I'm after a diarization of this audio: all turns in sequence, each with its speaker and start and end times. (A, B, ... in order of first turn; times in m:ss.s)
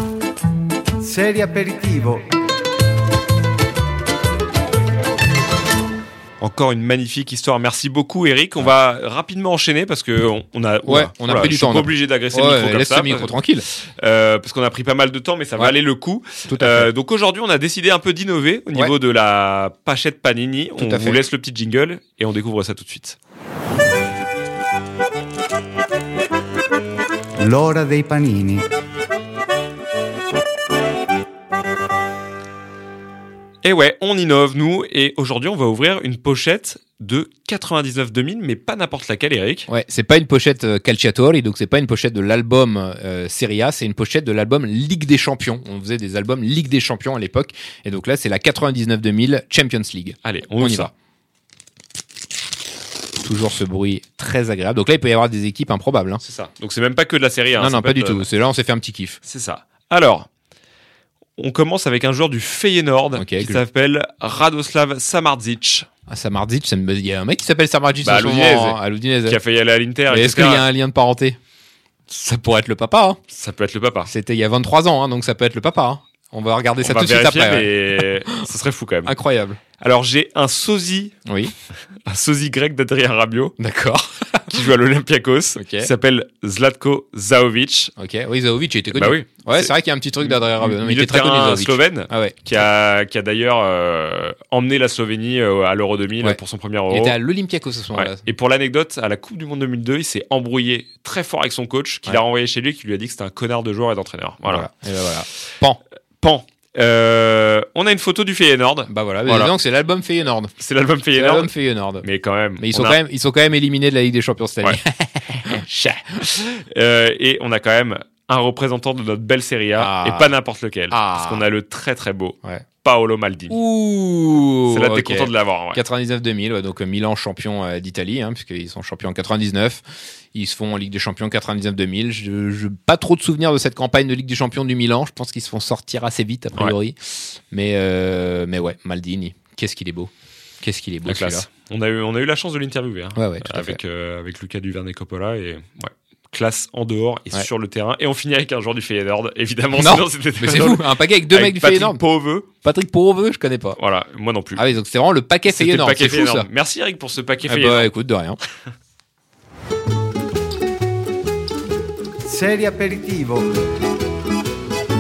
0:01.0-0:02.3 A
0:06.4-0:13.4 B
0:10.8-0:13.7 C
0:13.9-0:23.2 B
0:16.5-0:16.9 C
0:20.8-0:21.2 C
0:27.4-0:28.6 A
0:33.6-0:39.7 B
0:39.7-0:50.9 C
0:50.2-0:50.9 B
0:53.2-0:56.2 C
0:56.2-0:58.3 B
0:57.6-0:59.2 C
0:59.2-1:00.3 B
1:01.4-1:05.9 B
1:03.2-1:03.6 C
1:06.1-1:09.4 C
1:08.0-1:10.6 B
1:10.1-1:11.4 C
1:12.1-1:13.2 C
1:13.3-1:14.1 B
1:14.1-1:18.5 C
1:16.8-1:19.1 B
1:19.1-1:19.6 C
1:19.8-1:21.2 B
1:21.3-1:21.5 C
1:22.1-1:23.5 B
1:23.6-1:24.6 C
1:24.5-1:27.9 B
1:25.6-1:25.9 C
1:28.0-1:32.4 C
1:28.9-1:29.7 B
1:30.2-1:37.2 B
1:36.9-1:38.3 C
1:37.9-1:44.7 B
1:44.4-1:45.8 C
1:46.2-1:49.5 B
1:48.9-1:50.5 C
1:50.6-1:51.5 B
1:51.1-1:52.1 C
1:52.0-1:53.0 B
1:52.6-1:56.3 C
1:56.2-2:03.6 B
1:59.8-2:00.3 C
2:00.9-2:01.4 C
2:03.5-2:20.1 C
2:04.7-2:05.8 B
2:20.6-2:21.5 C
2:21.1-2:32.5 B
2:23.2-2:23.8 C
2:29.8-2:32.0 C
2:32.5-2:33.8 C
2:33.8-2:34.6 B
2:34.6-2:36.5 C
2:35.5-2:37.9 B
2:37.5-2:38.4 C
2:42.2-2:43.5 A